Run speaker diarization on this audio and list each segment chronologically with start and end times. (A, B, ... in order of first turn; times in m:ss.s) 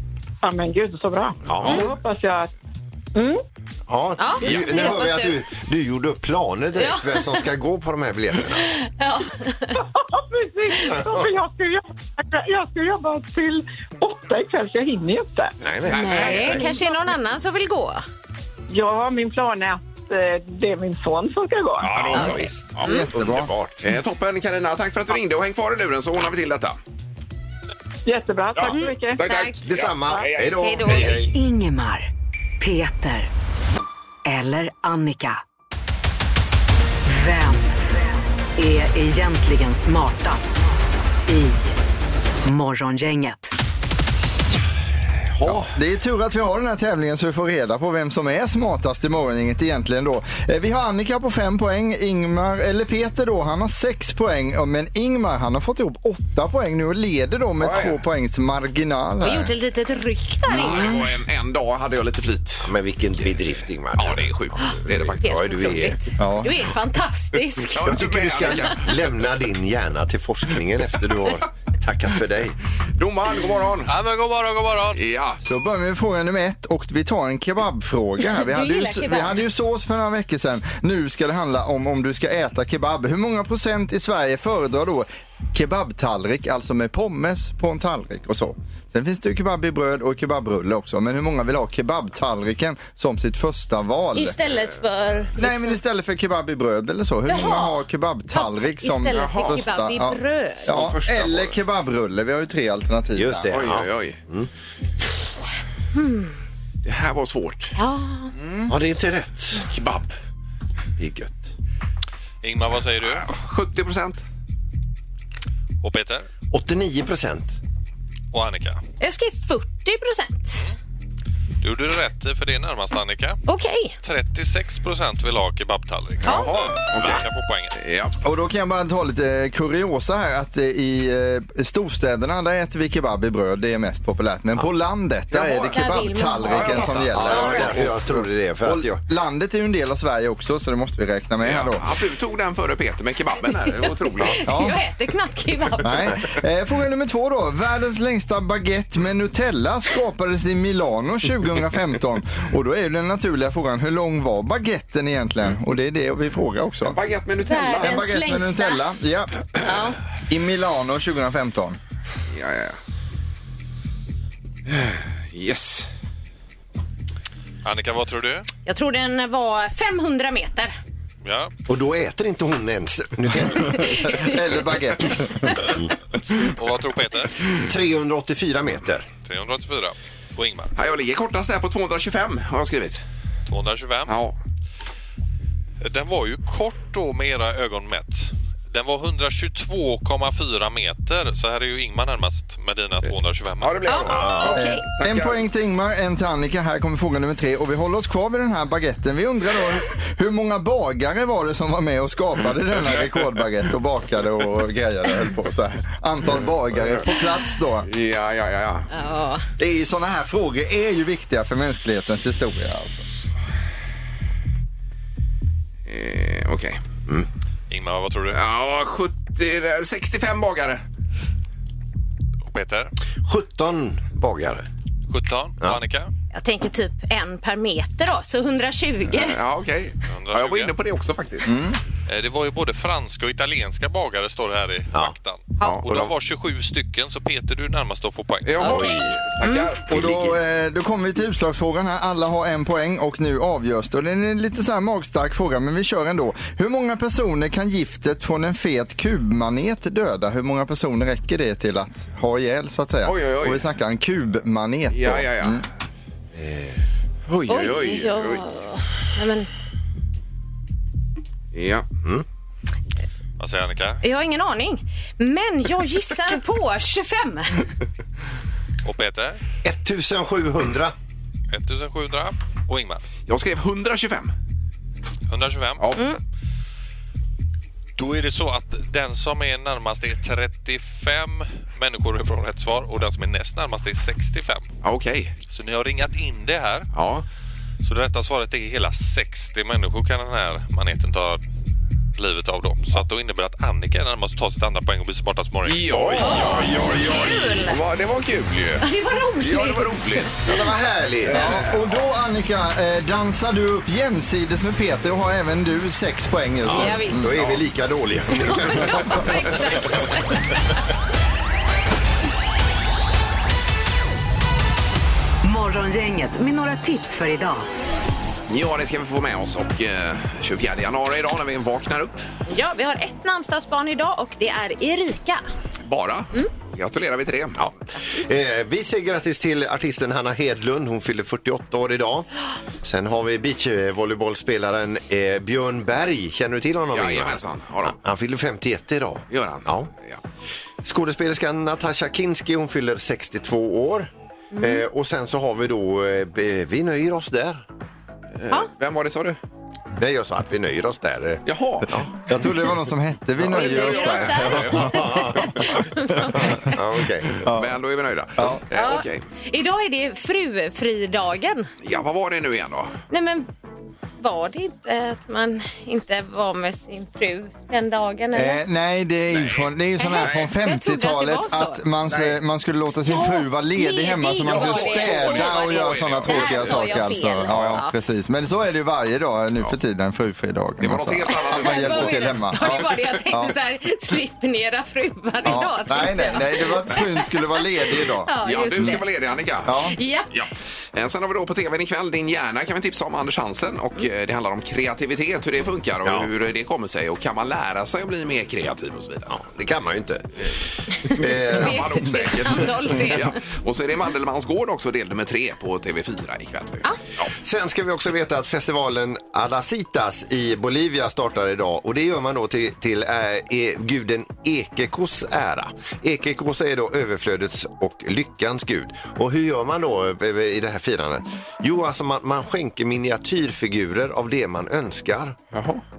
0:00.4-0:02.5 A
0:01.4-0:01.8 B
0:03.2-0:03.4 A
0:03.9-0:08.7 B
0:04.2-0:05.4 C
0:04.5-0:04.8 D
0:06.8-0:07.4 C
0:08.7-0:09.8 C
0:09.8-0:15.5 A
0:10.9-0:11.3 B
0:15.6-0:16.7 B
0:15.8-0:16.7 D
0:15.9-0:18.0 C
0:18.7-0:22.0 A
0:21.8-0:26.8 D
0:21.9-0:23.7 B
0:22.2-0:23.1 C
0:22.8-0:23.6 E
0:28.1-0:29.2 A
0:28.7-0:29.6 C
0:29.2-0:31.2 D
0:29.7-0:31.4 B
0:30.6-0:31.2 C
0:31.3-0:33.3 F
0:34.3-0:35.4 F
0:37.0-0:38.0 F
0:38.6-0:40.7 F
0:41.2-0:41.8 F
0:42.4-0:43.6 F
0:45.3-0:45.7 D
0:45.4-0:59.5 E
0:57.6-0:58.0 D
0:59.2-1:01.0 C
1:00.5-1:01.0 E
1:00.5-1:03.4 D
1:02.6-1:06.0 B
1:03.9-1:05.2 D
1:05.2-1:08.7 C
1:06.2-1:06.5 E
1:07.8-1:09.0 D
1:07.8-1:12.6 B
1:13.0-1:13.9 D
1:13.9-1:15.0 G
1:14.9-1:15.4 D
1:15.4-1:34.4 E
1:18.2-1:19.4 C
1:34.2-1:35.8 C
1:35.4-1:43.5 E
1:37.3-1:40.7 C
1:39.1-1:39.6 D
1:40.7-1:41.6 D
1:43.2-1:44.5 B
1:43.5-1:44.2 D
1:46.0-1:46.4 C
1:46.8-1:47.8 D
1:47.8-1:48.3 C
1:48.7-1:49.7 B
1:49.7-1:50.1 D
1:51.0-1:51.5 B
1:52.4-1:53.3 G
1:53.0-1:54.2 D
1:55.8-1:56.3 G
1:56.5-1:57.6 B
1:58.3-1:58.8 G
1:59.0-2:00.7 C
2:01.6-2:03.4 G
2:03.5-2:04.0 C
2:04.0-2:07.8 G
2:06.2-2:06.5 C
2:06.2-2:08.2 D
2:08.2-2:21.8 E
2:15.3-2:15.9 D
2:15.7-2:17.7 C
2:16.4-2:17.9 D
2:17.1-2:19.0 B
2:21.4-2:24.4 D
2:24.2-2:26.2 C
2:24.4-2:24.8 E
2:25.8-2:37.0 E
2:36.8-2:38.0 D
2:37.5-2:38.8 C
2:37.7-2:39.5 E
2:39.6-2:40.0 C
2:40.3-2:41.8 E
2:42.3-2:42.8 D
2:44.7-2:45.9 D
2:47.6-2:48.5 G
2:48.7-2:50.7 C
2:51.2-2:51.5 G
2:51.7-2:54.1 B
2:53.8-2:54.4 C
2:54.0-2:55.7 E
2:56.4-2:57.5 G
2:57.6-2:59.1 B
2:59.3-3:00.7 G
3:00.8-3:03.0 D
3:03.5-3:04.2 G
3:04.1-3:04.4 D
3:05.8-3:14.0 G
3:13.6-3:15.4 D
3:13.9-3:14.8 C
3:14.1-3:14.6 B
3:14.6-3:27.9 E
3:27.9-3:28.9 D
3:28.9-3:29.5 C
3:29.6-3:33.0 E
3:35.9-3:36.8 D
3:37.7-3:38.4 G
3:38.3-3:40.8 D
3:42.5-3:42.9 G
3:43.2-3:44.7 B
3:45.1-3:46.1 G
3:46.3-3:49.4 C
3:49.2-3:51.5 D
3:50.1-3:50.7 G
3:51.4-3:51.8 E
3:52.1-3:58.8 G
3:55.6-3:56.1 D
3:58.5-4:00.2 D
3:58.6-3:59.7 C
3:58.6-3:59.2 B
3:59.9-4:15.6 E
4:00.0-4:00.3 B
4:13.0-4:13.6 D
4:14.9-4:15.6 D
4:16.4-4:16.8 B
4:17.3-4:18.4 D
4:17.5-4:19.5 C
4:21.5-4:21.9 D
4:23.4-4:24.0 G
4:24.0-4:27.6 C
4:28.8-4:29.4 G
4:29.6-4:31.0 B
4:31.5-4:33.0 G
4:33.3-4:34.3 D
4:35.3-4:36.0 G
4:38.0-4:44.7 G
4:44.8-4:45.3 D
4:45.5-4:46.9 G
4:46.9-4:47.2 D
4:47.8-4:51.4 G
4:52.2-4:56.8 G
4:55.7-4:58.9 D
4:56.2-4:57.8 C
4:58.8-5:00.3 C
4:59.4-5:00.6 D
5:00.4-5:01.7 B
5:01.3-5:01.6 D
5:01.3-5:07.4 E
5:06.7-5:09.4 B
5:06.7-5:07.3 C
5:07.3-5:07.6 D
5:08.3-5:10.7 C
5:15.4-5:17.7 F
5:18.5-5:22.2 D
5:22.5-5:25.4 C
5:25.9-5:27.7 D
5:27.6-5:32.3 B
5:32.8-5:39.9 B
5:36.9-5:38.0 D
5:39.3-5:40.2 D
5:40.8-5:47.6 B
5:44.5-5:44.8 C
5:48.4-5:49.4 D
5:50.0-5:52.1 B
5:51.5-5:52.0 D
5:52.3-5:54.9 E
5:53.4-5:55.5 D
5:53.5-5:56.8 C
5:54.4-5:55.6 B
5:56.7-5:57.4 B
5:57.4-5:57.8 E
5:57.4-5:59.2 D
5:58.7-6:01.7 C
6:01.8-6:02.9 D
6:03.1-6:03.5 C
6:04.2-6:08.6 C
6:08.3-6:23.6 E
6:09.3-6:10.5 D
6:10.0-6:11.8 C
6:12.1-6:12.4 D
6:13.1-6:17.9 C
6:14.4-6:17.8 D
6:20.8-6:22.9 D
6:21.3-6:27.4 C
6:25.4-6:29.0 E
6:27.9-6:29.0 C
6:28.4-6:29.8 D
6:29.6-6:30.0 E
6:29.8-6:30.3 C
6:30.3-6:39.4 D
6:36.0-6:36.3 B
6:39.3-6:40.5 B
6:41.1-6:42.0 B
6:41.1-6:43.4 C
6:41.1-6:47.3 D
6:47.4-7:05.4 B
7:05.5-7:05.8 D